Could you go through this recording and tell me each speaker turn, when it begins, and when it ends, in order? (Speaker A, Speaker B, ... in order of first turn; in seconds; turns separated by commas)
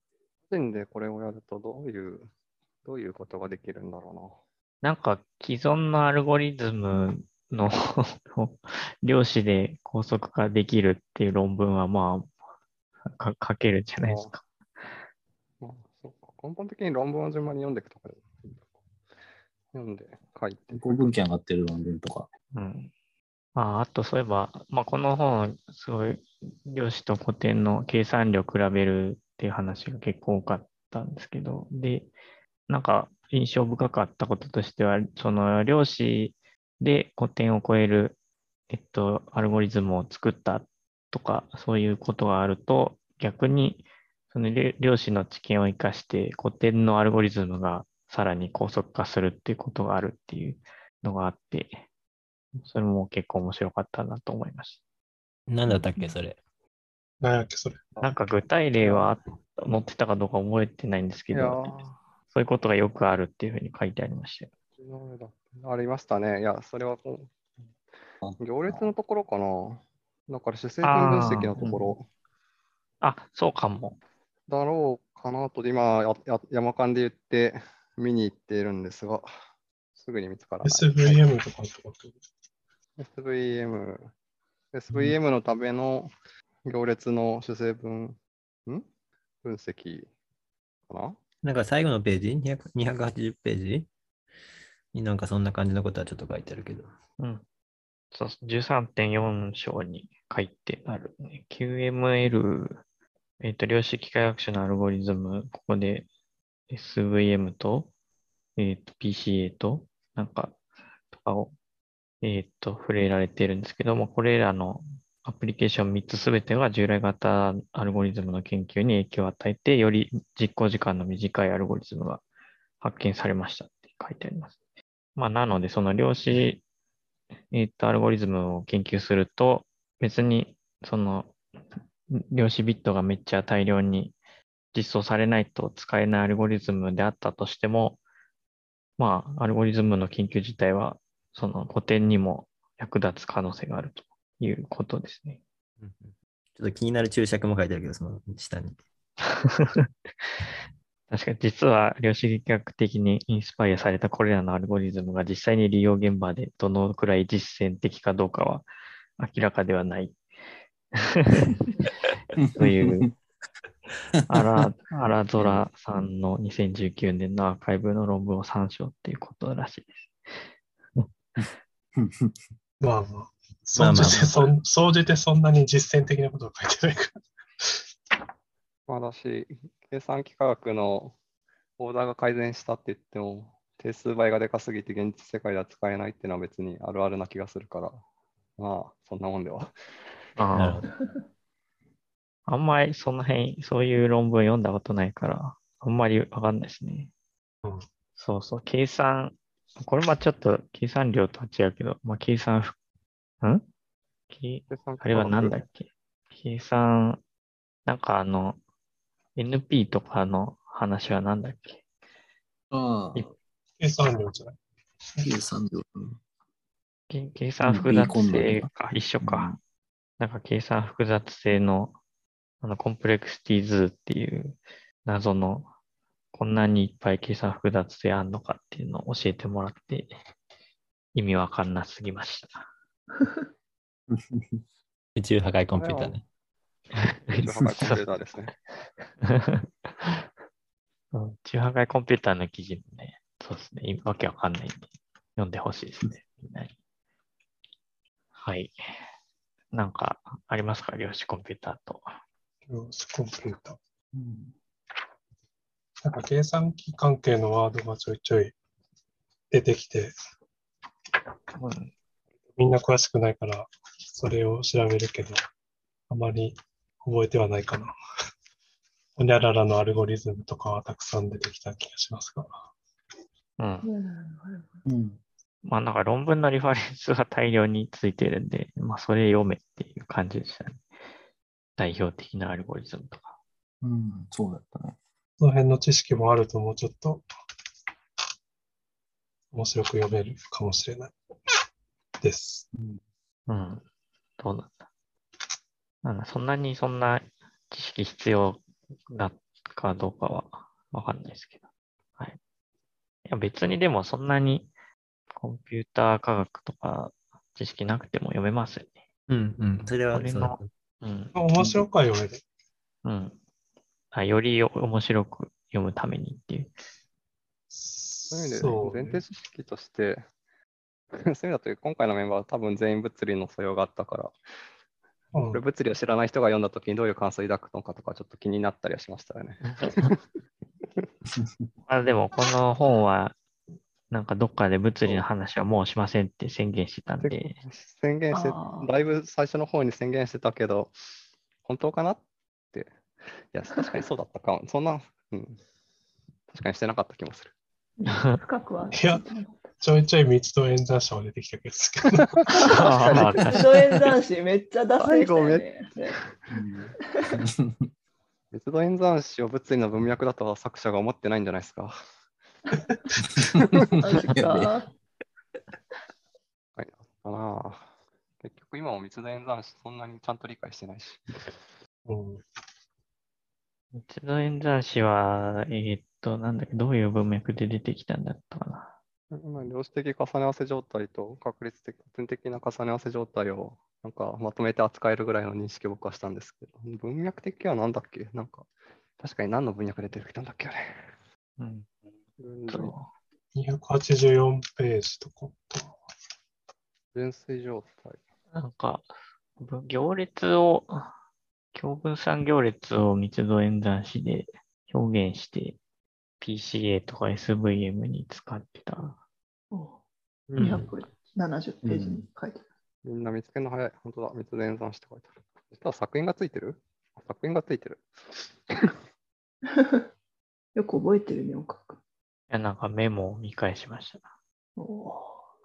Speaker A: 0.5-2.3, Speaker A: 2.9-4.4, Speaker B: 4.8-12.3, Speaker B: 13.1-14.4, Speaker A: 14.0-14.3, Speaker A: 15.6-18.5, Speaker A: 19.7-20.8, Speaker C: 20.7-22.3, Speaker B: 22.5-22.9, Speaker B: 23.6-32.1, Speaker B: 32.7-38.2, Speaker B: 38.7-51.8, Speaker B: 52.6-54.8, Speaker D: 55.5-56.4, Speaker E: 57.2-58.0, Speaker B: 58.0-64.5, Speaker A: 61.3-62.0, Speaker A: 64.8-67.3, Speaker C: 68.2-68.9, Speaker A: 68.4-72.1, Speaker B: 70.8-71.7, Speaker B: 73.0-74.0, Speaker A: 74.5-79.3, Speaker A: 80.0-81.2, Speaker E: 80.6-82.2, Speaker A: 83.0-84.1, Speaker A: 84.7-86.1, Speaker A: 86.7-88.9, Speaker A: 89.4-90.1, Speaker A: 90.9-91.2, Speaker D: 91.4-93.9, Speaker D: 94.9-96.9, Speaker B: 98.1-102.8, Speaker B: 103.4-106.1, Speaker B: 106.7-107.9, Speaker B: 108.6-110.6, Speaker B: 111.1-111.5, Speaker B: 112.2-122.2, Speaker B: 122.8-124.5, Speaker B: 125.2-126.6, Speaker B: 127.5-131.3, Speaker B: 132.1-134.2, Speaker B: 134.7-138.0, Speaker B: 139.0-145.4, Speaker D: 145.8-148.8, Speaker B: 149.3-149.9, Speaker B: 151.1-158.7, Speaker B: 159.2-160.2, Speaker B: 161.0-161.9, Speaker C: 162.4-163.1, Speaker B: 162.6-163.1, Speaker C: 164.1-164.7, Speaker B: 164.3-170.1, Speaker C: 171.4-172.4, Speaker E: 172.8-177.8, Speaker D: 173.8-174.5, Speaker A: 178.9-181.2, Speaker A: 181.8-188.0, Speaker A: 188.6-189.7, Speaker B: 190.4-190.8, Speaker D: 190.5-190.9, Speaker B: 192.5-197.1, Speaker B: 198.2-202.8, Speaker B: 204.3-207.2, Speaker A: 204.7-205.6, Speaker B: 207.9-208.6, Speaker B: 209.4-211.8, Speaker C: 212.7-213.3, Speaker E: 213.8-214.6, Speaker C: 215.2-216.2, Speaker B: 217.1-219.6, Speaker C: 217.6-218.7, Speaker C: 219.2-219.6, Speaker B: 220.2-221.9, Speaker B: 222.6-225.7, Speaker B: 226.3-230.1, Speaker B: 231.2-232.7, Speaker C: 234.1-234.6, Speaker D: 235.2-236.2, Speaker A: 235.8-236.2, Speaker B: 237.0-238.0, Speaker A: 237.4-238.5, Speaker B: 239.2-240.1, Speaker B: 241.1-246.7, Speaker B: 248.4-248.7, Speaker B: 249.7-252.0, Speaker E: 252.7-253.8, Speaker C: 254.1-254.5, Speaker E: 256.0-258.5, Speaker E: 259.5-260.1, Speaker B: 261.6-261.9, Speaker E: 262.6-265.4, Speaker E: 266.1-267.9, Speaker E: 269.2-272.6, Speaker B: 273.6-273.9, Speaker F: 273.8-274.7, Speaker C: 274.9-275.2, Speaker B: 275.6-280.8, Speaker B: 281.8-283.4, Speaker C: 283.8-285.0, Speaker E: 285.4-287.2, Speaker E: 289.5-291.1, Speaker E: 292.2-292.7, Speaker C: 292.7-293.0, Speaker B: 293.5-293.8, Speaker B: 294.4-294.7, Speaker B: 296.0-301.6, Speaker B: 303.3-304.7, Speaker B: 305.4-308.9, Speaker D: 309.3-310.7, Speaker B: 310.1-311.4, Speaker E: 311.4-312.4, Speaker B: 313.1-313.4, Speaker B: 314.1-316.7, Speaker E: 317.7-319.2, Speaker A: 318.3-320.2, Speaker A: 321.1-324.4, Speaker E: 325.3-325.6, Speaker A: 325.5-330.2, Speaker C: 331.4-331.6, Speaker B: 331.9-333.4, Speaker B: 334.1-337.6, Speaker A: 337.2-340.9, Speaker F: 338.3-338.9, Speaker A: 341.6-342.2, Speaker A: 343.5-345.6, Speaker A: 346.5-347.5, Speaker F: 348.0-349.6, Speaker B: 348.1-348.4, Speaker E: 348.9-349.2, Speaker E: 349.8-352.4, Speaker A: 352.2-353.2, Speaker F: 352.6-356.2, Speaker B: 352.6-353.7, Speaker A: 355.0-355.6, Speaker C: 356.5-357.9, Speaker F: 357.1-357.4, Speaker A: 358.5-362.0, Speaker C: 363.2-364.8, Speaker A: 363.6-363.9, Speaker F: 364.0-364.9, Speaker A: 366.8-367.9, Speaker A: 368.4-371.6, Speaker E: 372.1-372.4, Speaker B: 373.9-378.9, Speaker A: 379.3-388.7, Speaker A: 389.2-391.1, Speaker B: 391.6-391.9, Speaker A: 392.4-392.9, Speaker B: 392.7-393.1, Speaker E: 393.5-396.0, Speaker A: 397.1-398.2, Speaker B: 398.5-399.1, Speaker B: 399.6-401.1, Speaker B: 401.7-405.8, Speaker B: 406.4-409.2, Speaker F: 409.7-410.0, Speaker A: 410.5-410.8, Speaker D: 410.6-410.9, Speaker F: 410.6-412.6, Speaker C: 411.8-412.2, Speaker A: 413.1-418.9, Speaker F: 419.7-420.0, Speaker F: 420.8-422.0, Speaker B: 422.5-424.2, Speaker F: 424.8-425.4